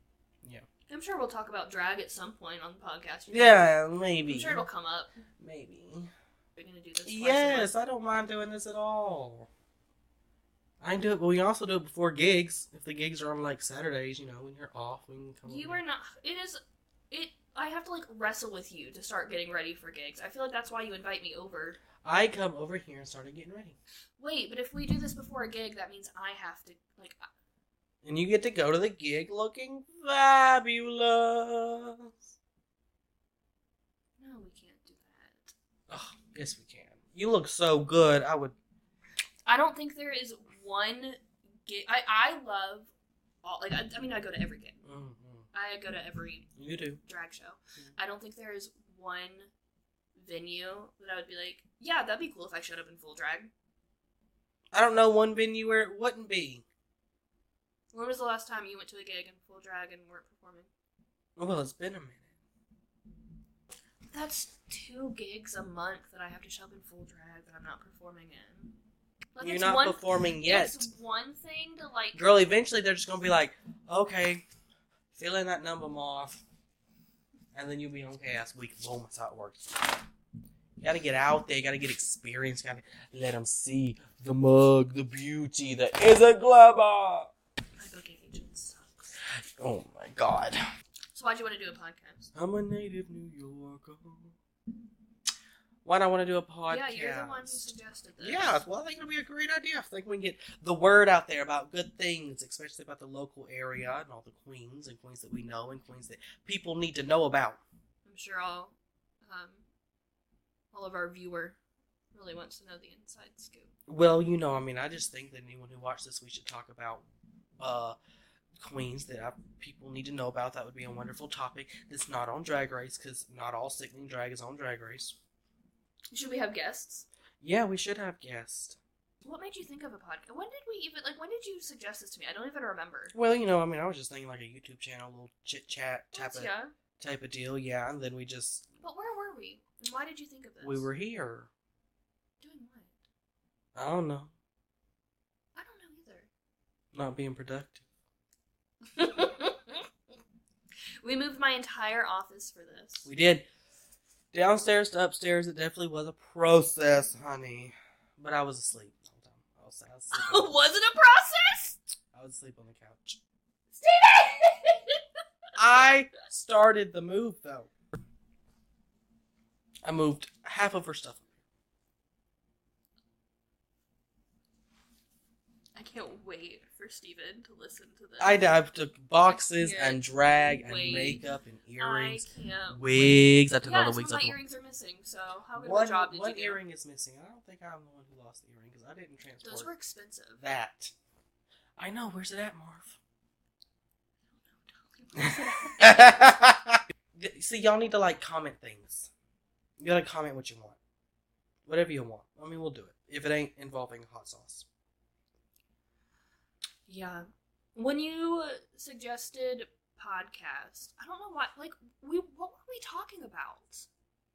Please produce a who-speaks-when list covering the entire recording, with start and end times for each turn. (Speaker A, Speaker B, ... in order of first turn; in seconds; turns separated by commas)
Speaker A: 0.9-3.7, Speaker B: 3.3-4.6, Speaker A: 4.2-5.2, Speaker B: 5.4-6.1, Speaker A: 6.5-7.7, Speaker B: 7.0-9.5, Speaker B: 10.8-15.8, Speaker A: 15.4-21.8, Speaker B: 22.0-23.8, Speaker A: 24.2-27.2, Speaker B: 28.0-32.3, Speaker A: 34.2-35.5, Speaker B: 35.9-38.5, Speaker A: 39.5-42.9, Speaker A: 43.4-44.8, Speaker B: 44.8-45.5, Speaker A: 45.5-46.5, Speaker B: 46.5-47.0, Speaker A: 47.0-49.5, Speaker A: 50.1-53.5, Speaker B: 54.7-56.6, Speaker A: 57.9-60.7, Speaker B: 61.4-62.3, Speaker A: 64.1-68.7, Speaker A: 69.3-72.2, Speaker B: 69.4-70.9, Speaker B: 72.1-74.4, Speaker B: 75.1-76.4, Speaker B: 77.5-80.0, Speaker B: 80.8-87.3, Speaker A: 87.8-89.2, Speaker B: 89.6-90.6, Speaker A: 91.1-92.3, Speaker B: 92.3-94.3, Speaker B: 95.8-107.6, Speaker A: 96.7-98.6, Speaker A: 108.0-109.6, Speaker A: 110.7-111.6, Speaker A: 112.1-113.7, Speaker B: 113.9-117.0, Speaker B: 117.6-118.0, Speaker B: 118.6-125.2, Speaker A: 126.1-127.0, Speaker B: 127.4-128.8, Speaker A: 129.2-133.1, Speaker B: 133.1-138.7, Speaker A: 136.1-136.7, Speaker A: 138.8-140.9, Speaker B: 140.6-141.5, Speaker A: 142.4-143.0, Speaker B: 143.7-144.3, Speaker A: 145.5-146.3, Speaker B: 146.9-147.8, Speaker A: 148.9-149.8, Speaker A: 151.0-153.1, Speaker B: 153.0-153.4, Speaker B: 154.3-160.5, Speaker A: 160.1-161.8, Speaker B: 162.1-163.2, Speaker A: 163.7-165.0, Speaker B: 165.5-167.7, Speaker B: 169.8-171.3, Speaker A: 175.7-178.5, Speaker B: 178.2-184.4, Speaker A: 179.2-181.3, Speaker A: 181.8-186.6, Speaker B: 185.5-189.7, Speaker A: 189.4-190.4, Speaker B: 190.4-190.9, Speaker B: 191.8-193.0, Speaker A: 194.3-196.2, Speaker B: 195.8-199.1, Speaker B: 199.8-200.8, Speaker B: 201.7-204.7, Speaker A: 206.9-213.9